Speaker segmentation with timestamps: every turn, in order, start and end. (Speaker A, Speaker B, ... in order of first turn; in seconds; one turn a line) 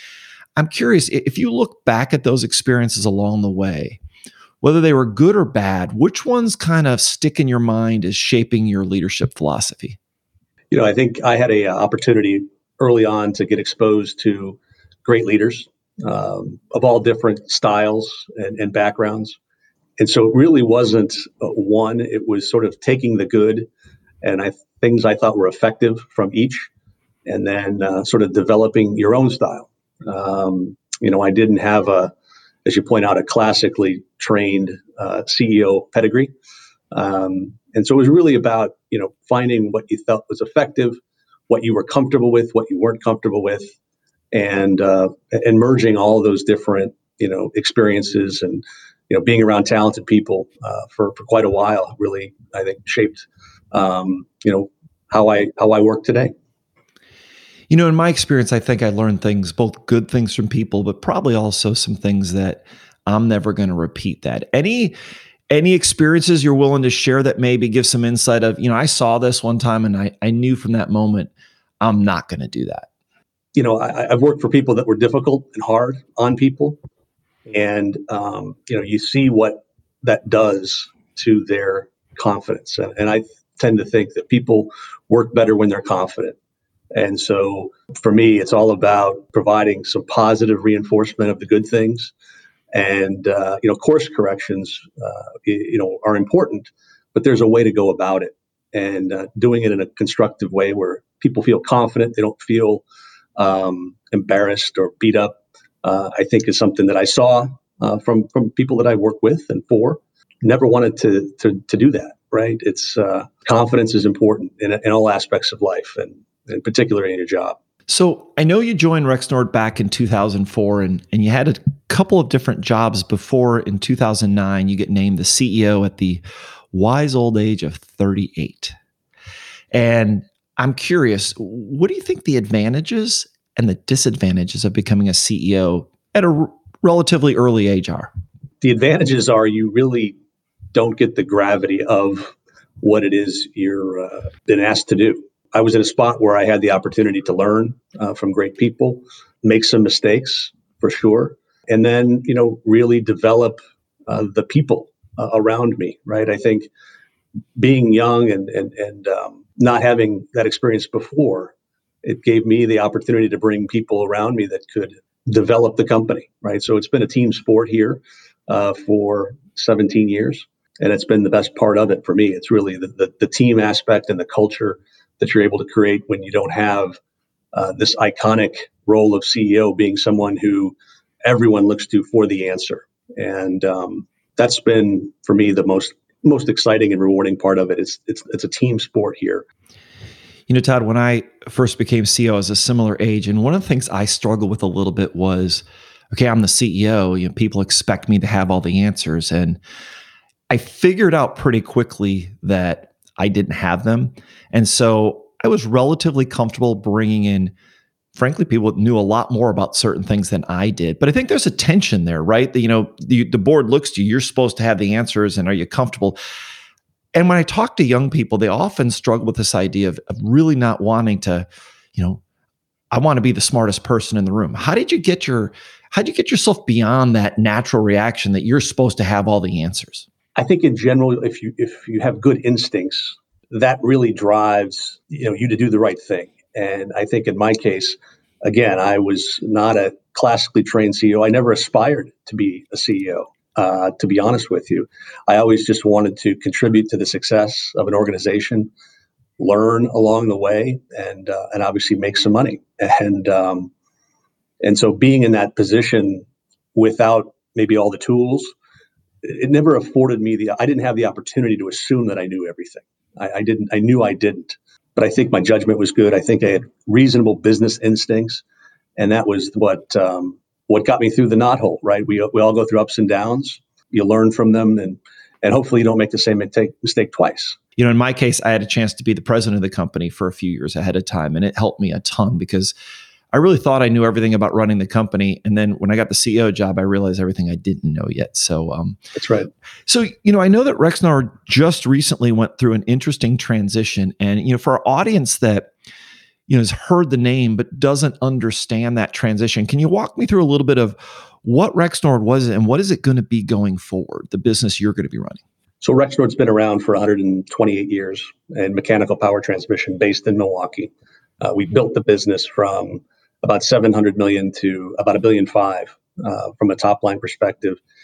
Speaker A: 0.6-4.0
Speaker A: 4.6-10.0
Speaker B: 10.7-19.4
Speaker B: 20.0-23.7
Speaker B: 24.2-26.7
Speaker B: 27.2-32.1
Speaker B: 32.6-36.3
Speaker B: 36.9-43.7
Speaker B: 44.3-56.3
Speaker A: 57.7-64.9
Speaker A: 65.5-72.9
Speaker B: 73.5-76.8
Speaker B: 77.5-86.4
Speaker B: 86.9-92.1
Speaker B: 92.7-102.8
Speaker B: 103.4-117.6
Speaker A: 117.9-128.8
Speaker A: 129.7-138.1
Speaker B: 138.6-140.2
Speaker B: 140.7-156.7
Speaker B: 157.6-177.0
Speaker B: 177.5-189.4
Speaker A: 190.5-199.6
Speaker A: 200.5-207.5
Speaker A: 208.1-216.2
Speaker A: 217.1-222.2
Speaker A: 222.9-230.1
Speaker B: 230.4-248.7
Speaker B: 249.4-253.7
Speaker B: 254.6-258.5
Speaker B: 259.2-268.4
Speaker B: 269.0-277.6
Speaker A: 277.8-282.7
Speaker A: 283.3-289.0
Speaker B: 289.1-289.5
Speaker A: 289.9-295.7
Speaker A: 296.5-305.4
Speaker B: 305.8-317.8